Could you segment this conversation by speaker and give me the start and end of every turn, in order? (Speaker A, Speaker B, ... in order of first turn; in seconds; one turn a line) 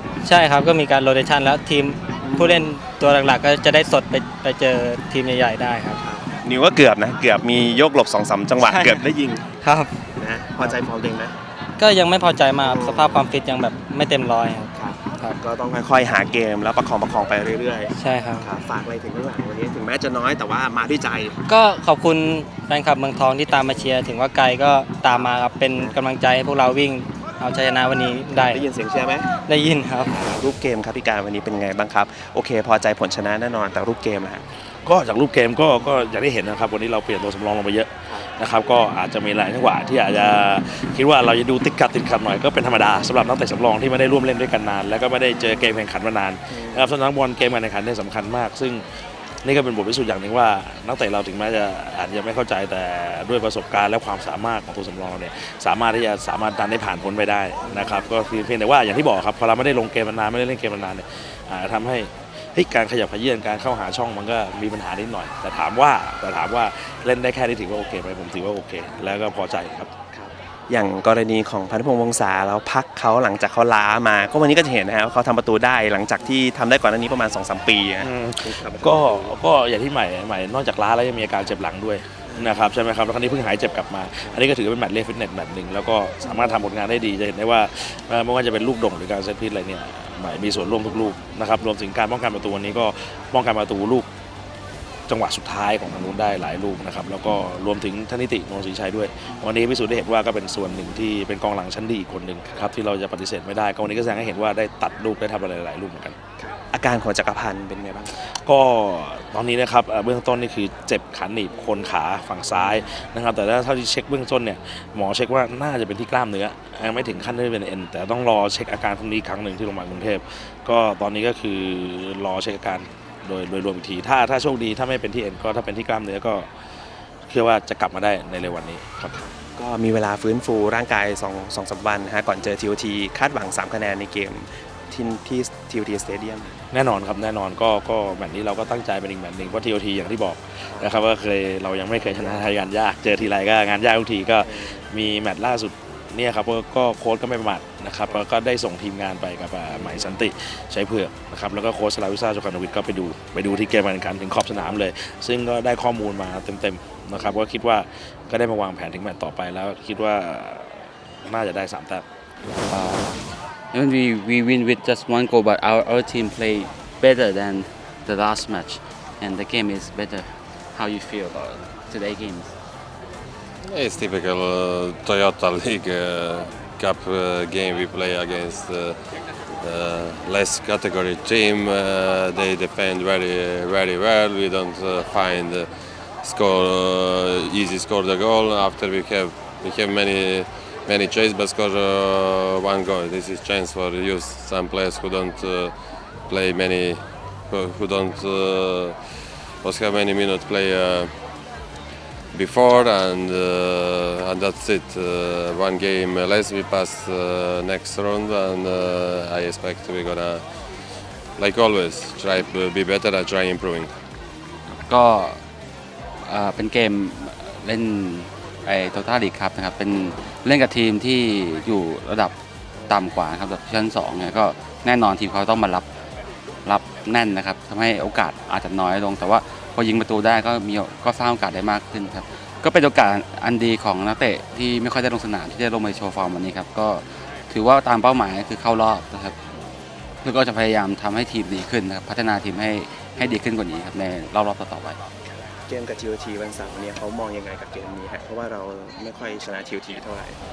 Speaker A: 0.2-6.0
Speaker B: 2.2-2.7
Speaker B: 6.0-9.4
Speaker A: 8.6-9.0
Speaker A: 9.6-10.0
Speaker B: 10.2-11.3
Speaker A: 11.8-15.4
Speaker B: 12.6-13.2
Speaker B: 14.7-21.4
Speaker A: 17.9-18.5
Speaker A: 21.5-28.6
Speaker B: 25.1-26.0
Speaker B: 28.4-29.3
Speaker A: 29.5-30.1
Speaker B: 30.1-34.4
Speaker C: 34.7-69.9
Speaker B: 46.5-46.9
Speaker B: 57.7-58.0
Speaker B: 70.1-79.4
Speaker C: 78.0-94.1
Speaker B: 82.3-82.7
Speaker C: 95.1-106.2
Speaker B: 106.4-108.2
Speaker C: 108.2-126.5
Speaker C: 127.2-129.3
Speaker B: 129.6-136.6
Speaker C: 136.7-162.0
Speaker B: 140.7-141.0
Speaker B: 142.1-142.4
Speaker B: 144.4-144.8
Speaker B: 149.7-150.1
Speaker D: 162.7-172.5
Speaker E: 173.6-201.2
Speaker E: 202.3-213.9
Speaker D: 214.7-215.4
Speaker D: 216.2-222.3
Speaker D: 222.9-225.9
Speaker D: 226.6-239.6
Speaker D: 240.2-245.0
Speaker B: 245.2-250.4